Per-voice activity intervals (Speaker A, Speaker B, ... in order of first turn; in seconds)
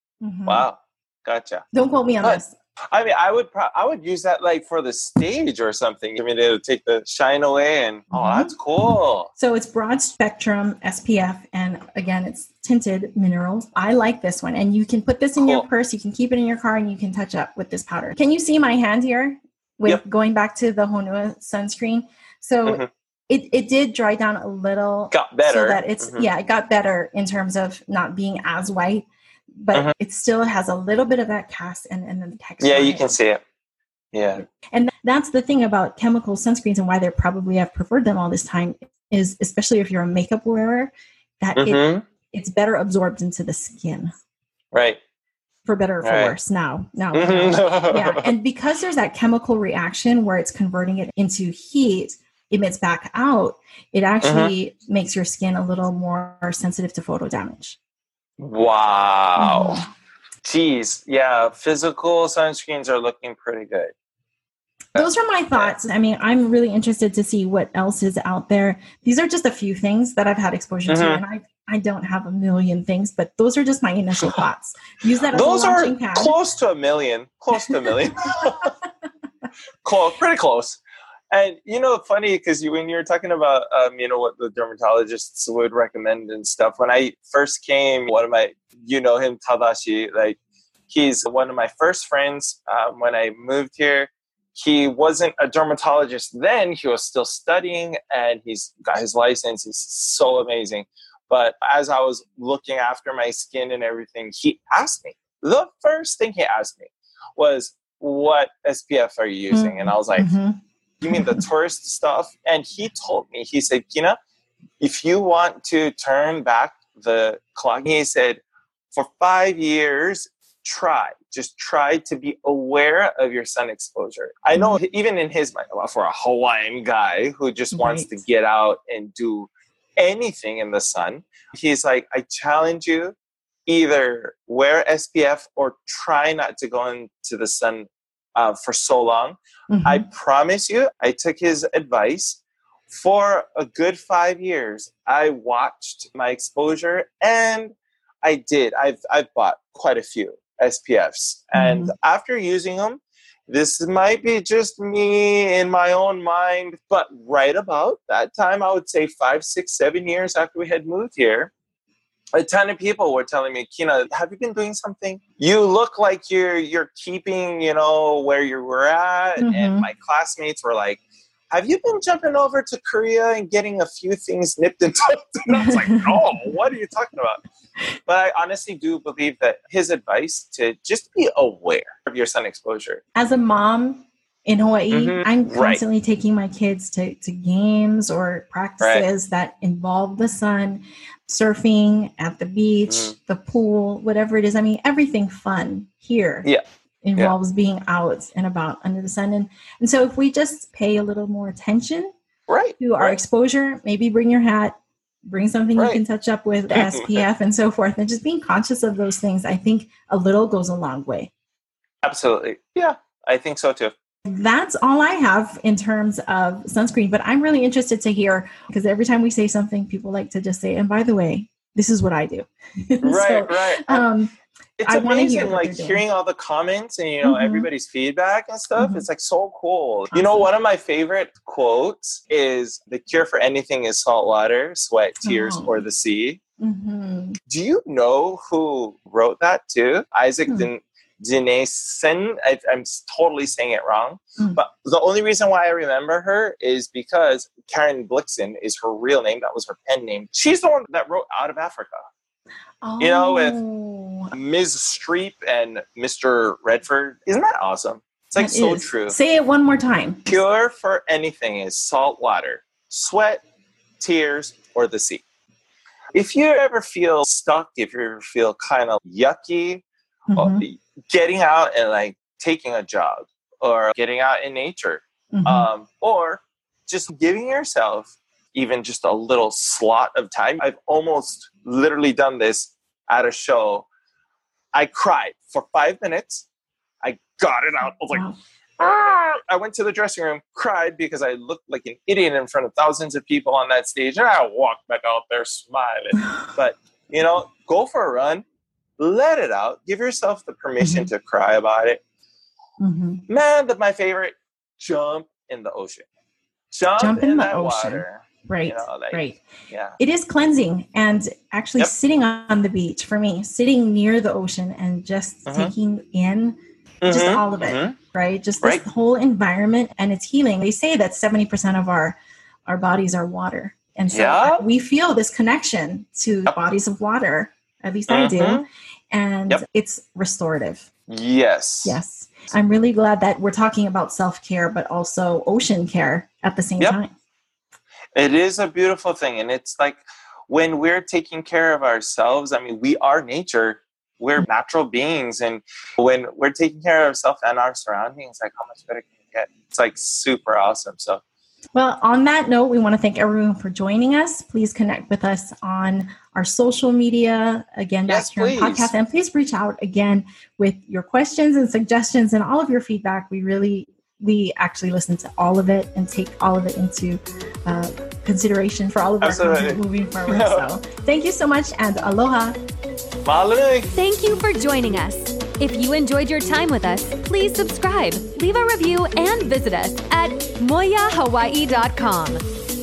Speaker A: 0.2-0.7, 1.7-2.5, 8.1-8.5, 9.3-29.1, 29.6-33.1, 34.4-44.1, 45.6-57.8, 59.4-59.9, 64.9-76.3, 77.7-78.6, 109.5-111.4, 127.7-128.2, 139.7-140.1, 151.5-151.9, 169.4-169.9, 175.5-176.4, 183.1-196.5, 197.0-202.1, 202.8-204.8, 205.3-211.3, 214.2-224.3, 224.8-226.0, 227.2-227.7, 228.8-229.0, 230.1-230.5, 235.2-235.8, 236.6-237.4, 252.8-254.3, 258.4-260.4, 270.3-270.6, 275.3-275.7, 288.1-288.4, 300.8-301.1, 302.8-303.2, 307.0-309.4, 310.0-316.6, 317.1-322.1, 322.7-330.9, 331.8-337.1, 351.7-372.6
Speaker B: 0.5-1.6, 2.2-9.3, 15.4-15.7, 25.1-26.3, 32.6-33.4, 34.1-34.4, 41.5-42.0, 44.7-45.0, 46.0-46.4, 47.1-48.3, 54.2-54.5, 58.4-59.8, 60.4-63.9, 70.9-71.2, 75.3-78.7, 79.8-90.4, 90.9-110.3, 111.0-114.2, 114.8-118.4, 118.9-133.1, 133.7-161.5, 162.3-177.4, 178.1-183.0, 184.9-185.8, 188.8-189.1, 202.5-203.2, 206.7-207.2, 212.0-213.9, 223.0-224.1, 224.8-236.4, 237.5-252.1, 253.0-253.6, 254.3-259.1, 260.3-263.4, 264.0-265.2, 266.1-269.8, 270.3-283.9, 284.7-286.4, 287.0-288.3, 288.8-298.4, 299.0-302.0, 303.3-306.1, 306.7-310.0, 315.5-315.7, 317.0-317.9, 324.1-324.6, 328.1-328.6, 331.1-332.0, 338.1-351.2, 358.1-358.9, 369.2-370.7, 373.2-373.9
Speaker C: 373.9-382.4